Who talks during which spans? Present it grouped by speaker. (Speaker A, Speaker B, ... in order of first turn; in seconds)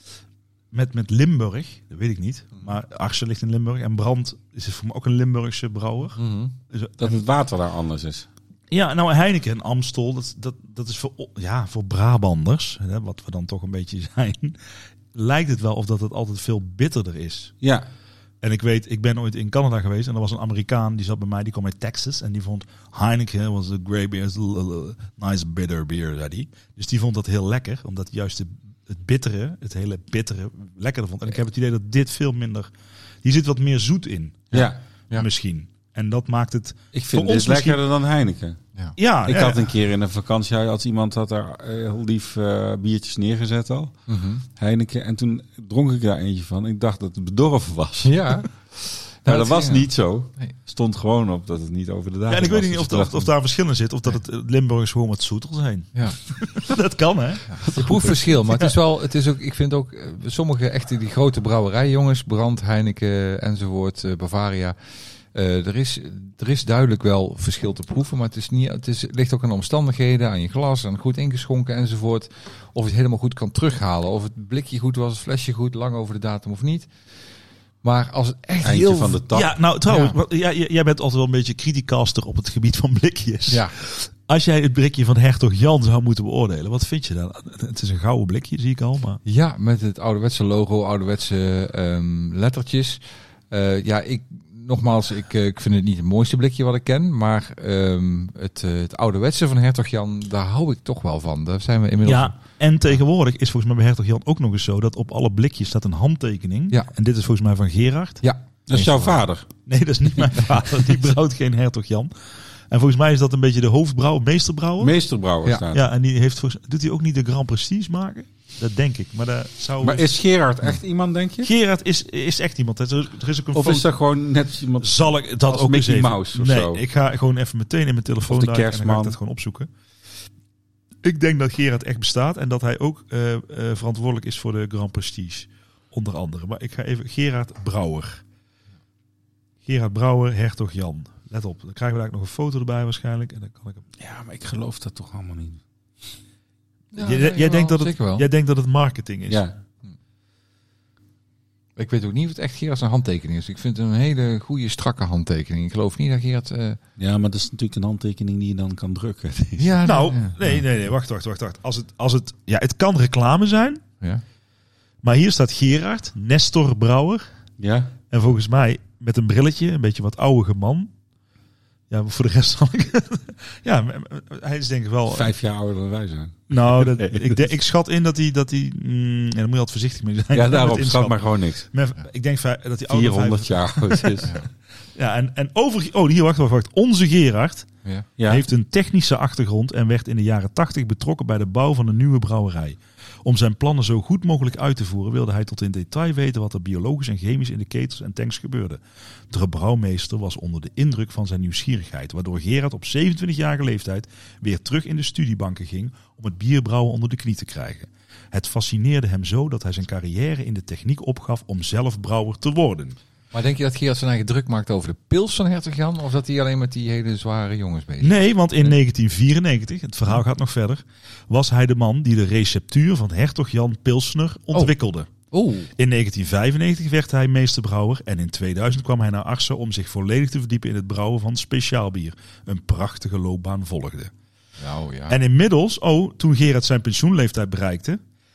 Speaker A: 0.7-7.1, 8.7-14.6, 15.1-17.5, 18.4-32.7, 33.2-37.8, 39.0-39.7, 52.3-58.7, 79.3-89.2, 102.0-108.2, 109.7-112.1, 112.7-115.0, 115.7-120.1, 121.4-123.9, 124.8-129.7, 131.0-138.2, 139.7-143.8, 147.0-149.5, 159.8-163.8, 165.0-167.2, 168.1-170.9, 171.9-175.3, 176.5-184.3, 185.0-187.7, 188.2-213.0, 218.0-225.1, 225.8-234.1, 235.1-238.0
Speaker B: 6.2-6.5, 44.1-44.5, 48.0-50.5, 57.5-64.8, 65.3-76.9, 77.8-79.2, 79.9-80.2, 89.2-102.3, 108.2-109.2, 146.9-148.3, 151.8-156.8, 159.6-160.6, 213.3-218.8, 225.3-225.7, 234.6-235.2
Speaker C: 7.0-8.3, 17.6-17.9, 34.5-34.8, 36.9-38.6, 39.2-44.0, 44.5-48.4, 49.3-53.3, 78.6-79.5, 108.7-109.5, 114.8-115.8, 119.8-121.5, 123.5-126.8, 128.3-129.2, 144.0-145.6, 157.0-159.8, 167.6-167.9, 175.1-177.5, 180.3-181.7, 182.9-184.4, 188.2-188.5